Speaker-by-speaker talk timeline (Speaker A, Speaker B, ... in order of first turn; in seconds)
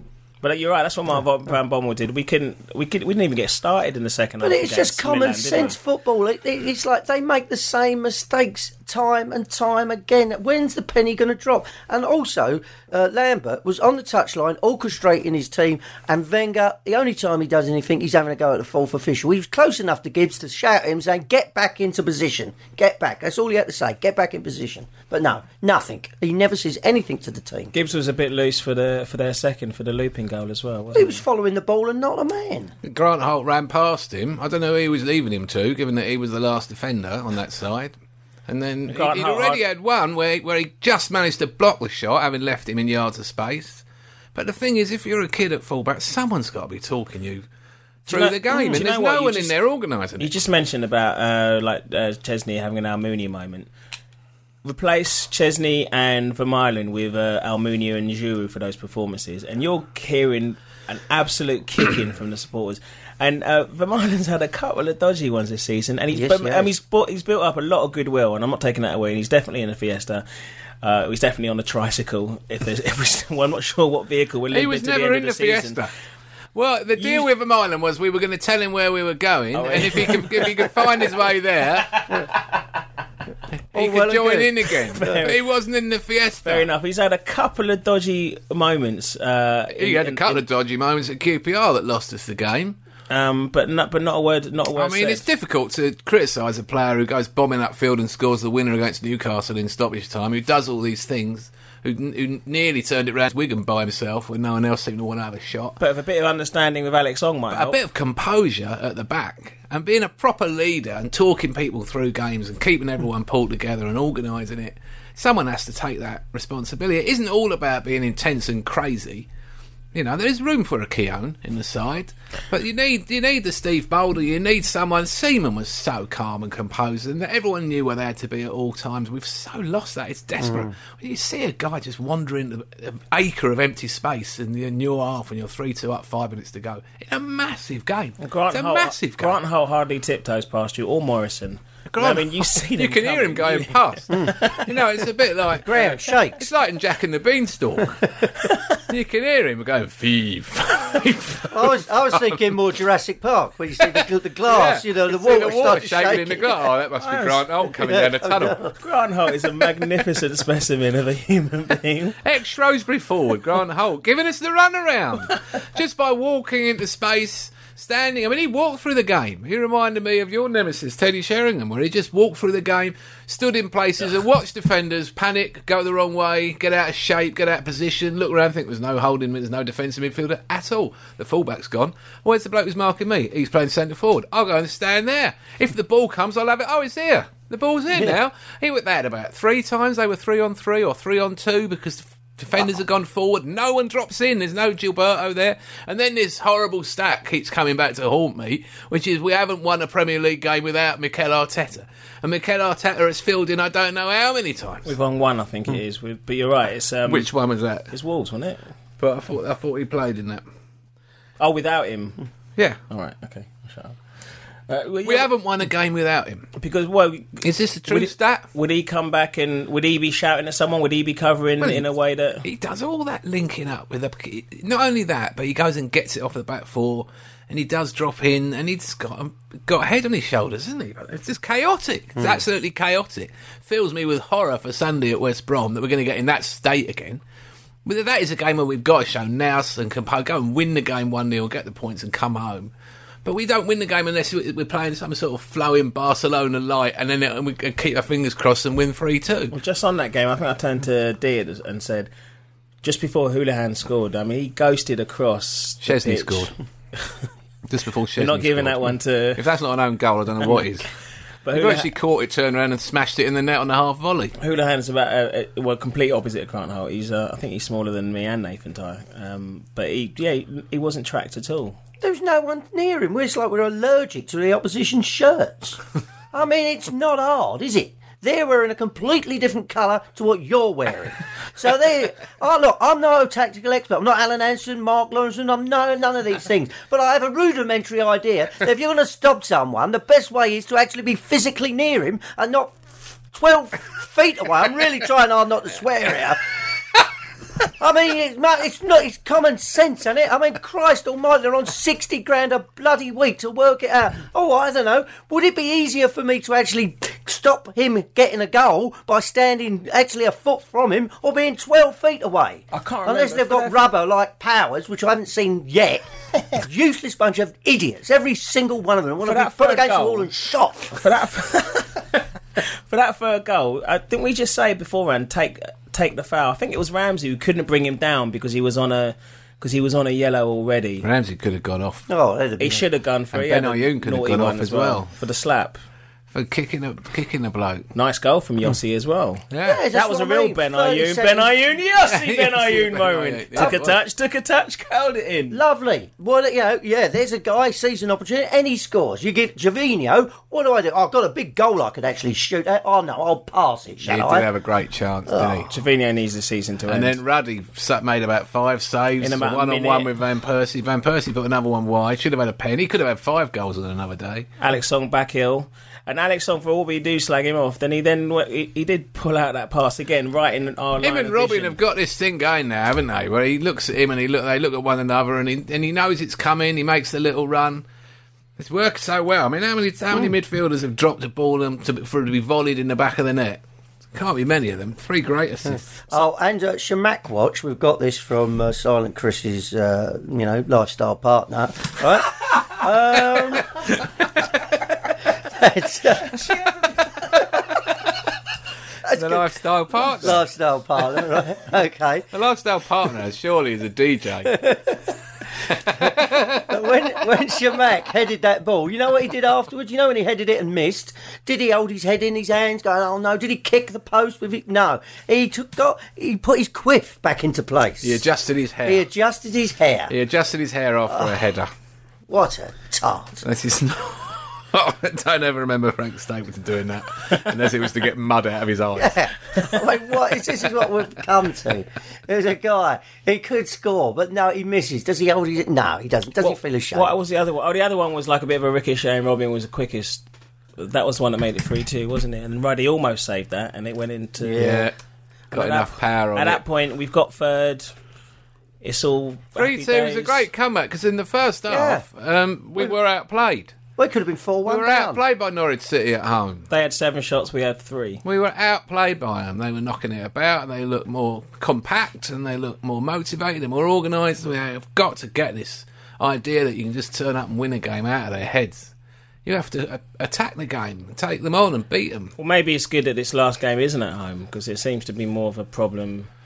Speaker A: 0.4-5.8, 27.7-31.2, 38.9-39.6, 48.1-49.6, 50.2-53.7, 54.6-70.2, 70.8-75.8, 77.0-77.3, 79.5-81.2, 82.0-82.3, 83.8-85.4, 86.4-90.4, 93.1-95.2, 105.8-107.8, 138.2-144.7, 157.0-157.5, 158.8-162.2, 204.8-207.3, 207.9-208.6, 211.4-212.2, 212.9-214.0, 214.7-215.3, 216.6-222.4, 249.5-252.1, 252.8-257.2, 258.2-259.4, 261.4-261.9, 264.4-271.8, 312.7-313.8, 319.2-320.3, 320.9-331.1, 332.6-335.8, 337.9-345.6, 355.7-357.2, 359.2-360.1, 364.6-371.8, 436.4-440.2, 440.8-444.7, 445.5-447.9, 448.8-450.4, 456.7-458.2, 472.4-476.3
Speaker B: 4.4-27.7, 30.9-32.7, 66.1-66.7, 83.7-84.4, 130.4-130.7, 145.7-146.5, 151.5-156.7, 157.7-158.7, 272.0-275.8, 276.3-292.8, 293.3-296.5, 297.8-321.0, 332.1-332.8, 339.6-341.7, 345.5-354.5, 355.3-355.6, 385.7-393.9, 395.4-396.8, 399.0-399.6, 400.1-402.3, 404.5-405.0, 406.0-418.2, 418.8-420.1, 421.1-421.4, 422.3-423.4, 428.9-437.1, 444.4-444.9, 451.7-452.0, 454.0-455.2
Speaker C: 32.8-37.9, 38.5-43.8, 44.3-47.5, 48.1-50.4, 74.5-75.9, 76.5-82.3, 83.5-86.7, 89.7-92.8, 94.7-105.8, 107.5-119.3, 119.9-139.4, 141.9-148.2, 148.8-152.4, 153.8-158.6, 162.2-204.9, 207.1-207.9, 209.0-210.4, 215.1-216.5, 217.4-218.5, 221.6-221.9, 222.4-237.2, 237.8-242.7, 243.2-249.6, 255.8-256.5, 257.7-260.9, 261.5-264.3, 331.0-332.1, 333.3-335.1, 336.3-337.9, 339.5-339.8, 342.0-344.0, 354.1-355.7, 356.9-364.5, 371.0-377.8, 378.6-383.6, 384.1-386.2, 399.1-400.4, 402.3-404.7, 405.7-406.7, 418.0-419.1, 420.1-421.7, 423.4-429.3, 444.6-444.9, 445.5-446.6, 449.6-453.8, 454.6-456.7, 458.2-468.9, 469.4-472.3